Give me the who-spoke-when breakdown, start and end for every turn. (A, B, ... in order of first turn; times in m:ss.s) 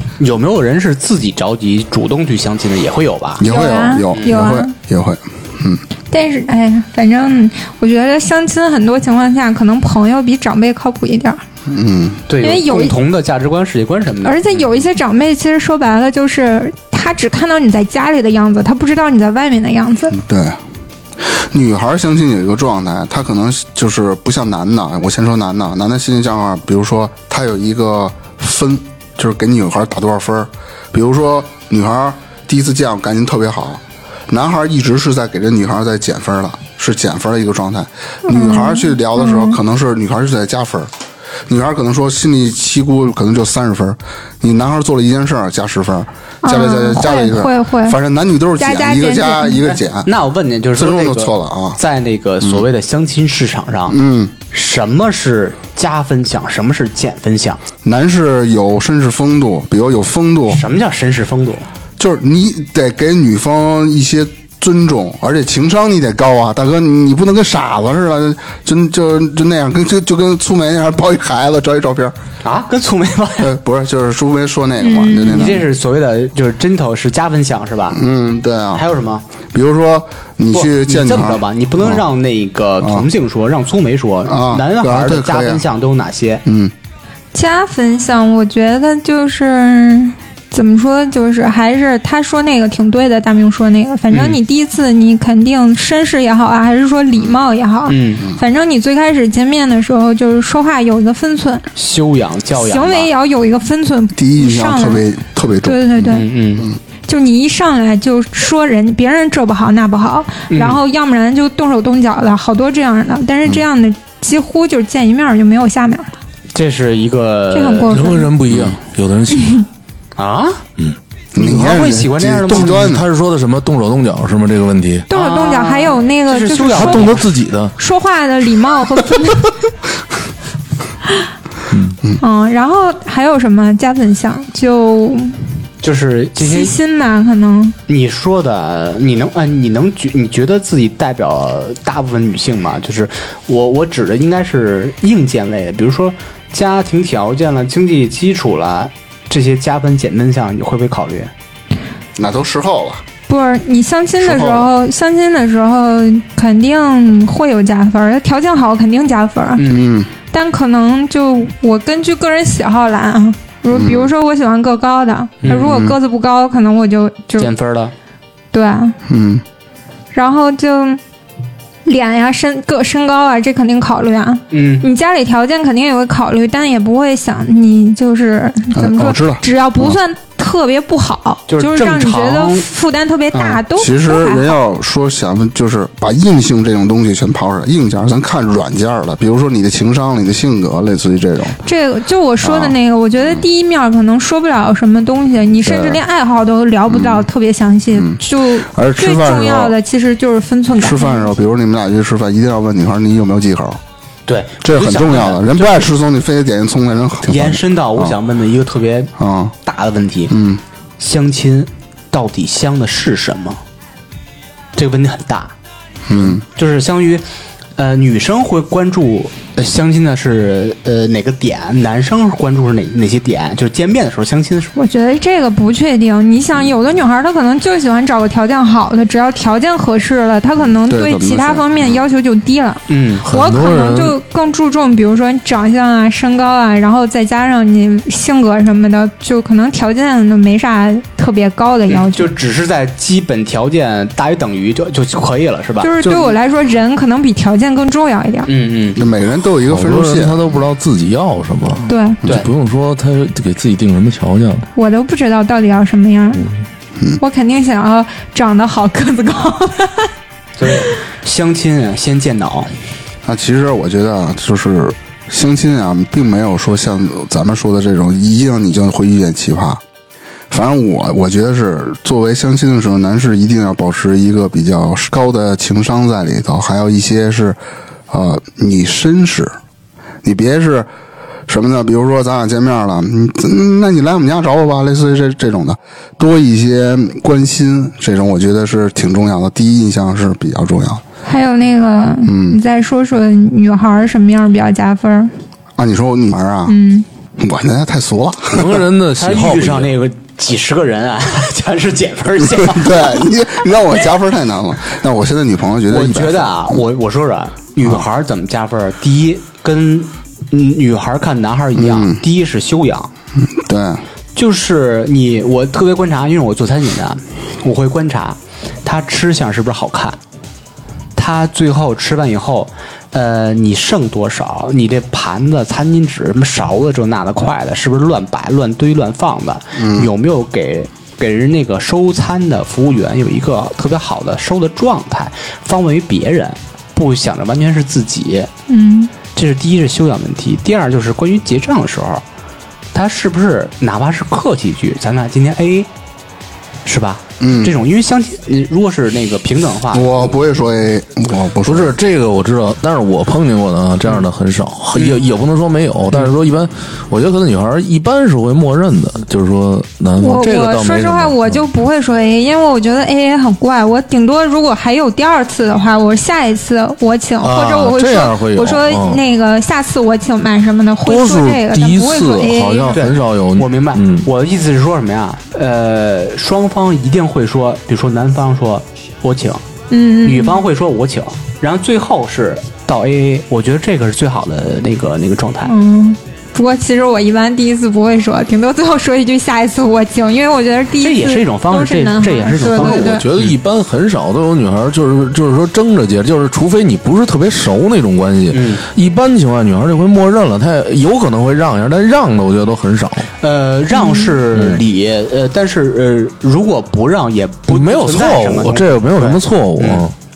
0:00.2-0:03.4 A
0:03.4-0:05.8 B
0:03.4-0:04.7 C
0:04.1-0:04.4 A
0:06.1-0:11.4 C
0:11.6-0:12.2 B
0:12.3-0:14.6 A
0:12.4-0:13.0 C
0:14.2-0:20.2 C
0:20.1-0:20.6 B
0:21.2-0:40.9 B
0:38.3-0:39.6 C
0:41.5-0:50.1 B
0:46.4-0:48.0 C
0:48.6-0:49.7 C
0:50.0-0:54.0 A
0:50.8-0:51.8 B
0:53.9-0:54.3 B
0:54.5-0:57.6 A
0:57.8-1:00.6 B
1:00.5-1:01.7 A
1:02.0-1:12.2 B
1:12.4-1:13.5 A
1:13.4-1:15.6 B
1:14.8-1:15.5 C
1:15.2-1:18.0 A
1:17.9-1:18.8 B
1:18.7-1:19.2 A
1:19.5-1:22.0 B
1:20.5-1:26.4 A
1:22.8-1:23.0 B
1:24.3-1:25.6 B
1:26.4-1:26.7 B
1:27.3-1:41.6 C
1:34.1-1:34.4 A
1:37.9-1:38.3 A
1:41.7-1:43.1 A
1:42.6-1:45.0 C
1:44.1-1:46.8 B
1:45.6-1:46.3 C
1:46.1-1:46.7 A
1:47.1-1:56.1 C
1:50.5-1:50.8 A
1:56.5-1:58.0 A
1:57.5-1:58.3 C
1:57.9-1:59.6 D
1:58.5-1:58.8 B
1:59.3-1:59.6 C
2:00.2-2:00.6 A
2:01.3-2:03.0 B
2:01.4-2:02.9 A
2:02.5-2:05.1 D
2:05.1-2:07.2 C
2:05.1-2:07.2 A
2:06.7-2:07.7 D
2:07.8-2:09.5 C
2:11.7-2:12.0 D
2:12.2-2:15.4 C
2:15.8-2:16.7 A
2:16.4-2:17.8 C
2:17.9-2:31.3 A
2:32.2-2:33.0 B
2:33.3-2:39.6 C
2:34.2-2:34.7 B
2:39.6-2:39.9 A
2:39.7-2:40.1 B
2:40.3-2:47.5 C
2:43.7-2:44.1 B
2:45.4-2:45.7 A
2:45.5-2:46.0 B
2:47.4-2:47.9 A
2:48.5-2:49.0 C
2:49.1-2:49.4 B
2:50.1-2:51.0 C
2:51.8-3:04.5 C
2:54.5-2:54.9 A
2:58.7-3:00.0 B
3:01.5-3:02.7 A
3:03.4-3:11.6 B
3:11.6-3:21.3 C
3:12.4-3:13.4 B
3:15.6-3:16.0 B
3:16.9-3:17.3 B
3:17.9-3:19.8 B
3:20.8-3:23.8 B
3:24.3-3:25.8 A
3:24.6-3:28.2 B
3:27.2-3:30.3 A
3:29.2-3:29.5 B
3:30.3-3:30.6 B
3:31.0-3:33.6 A
3:34.8-3:35.5 A
3:36.0-3:36.4 B
3:36.2-3:37.2 A
3:37.8-3:44.7 A
3:44.8-4:02.3 C
3:50.8-3:52.0 B
3:52.9-3:53.2 A
3:53.2-3:54.2 D
4:01.9-4:06.3 A
4:05.8-4:08.5 C
4:08.4-4:09.0 A
4:09.0-4:10.6 B
4:09.7-4:14.7 D
4:11.9-4:12.2 C
4:14.8-4:16.5 C
4:17.2-4:20.1 C
4:20.6-4:22.7 A
4:23.2-4:29.8 B
4:30.5-4:37.6 B
4:38.1-4:39.6 B
4:40.2-4:40.9 B
4:41.5-4:51.0 B
4:51.2-4:55.3 C
4:52.2-4:52.6 B
4:55.8-4:56.8 B
4:56.7-4:57.0 C
4:57.4-4:58.8 B
4:58.5-4:59.9 D
4:59.2-5:03.2 A
5:02.5-5:06.8 B
5:05.9-5:13.1 A
5:11.8-5:12.2 B
5:13.4-5:14.0 B
5:14.3-5:20.2 A
5:21.2-5:38.5 A
5:29.8-5:30.1 B
5:38.7-5:39.1 C
5:39.3-5:42.2 A
5:42.9-5:45.9 A
5:46.8-5:50.4 A
5:47.4-5:47.7 B
5:49.9-5:51.9 B
5:51.6-6:01.7 D
5:54.9-5:55.2 A
6:00.2-6:13.0 C
6:07.4-6:09.2 D
6:11.0-6:14.3 D
6:12.9-6:19.6 A
6:19.9-6:20.6 C
6:20.2-6:25.7 A
6:25.6-6:33.2 C
6:31.0-6:33.6 A
6:32.6-6:43.3 D
6:38.5-6:38.8 A
6:43.4-6:50.0 A
6:43.9-6:44.3 C
6:44.5-6:44.8 D
6:47.7-6:50.1 D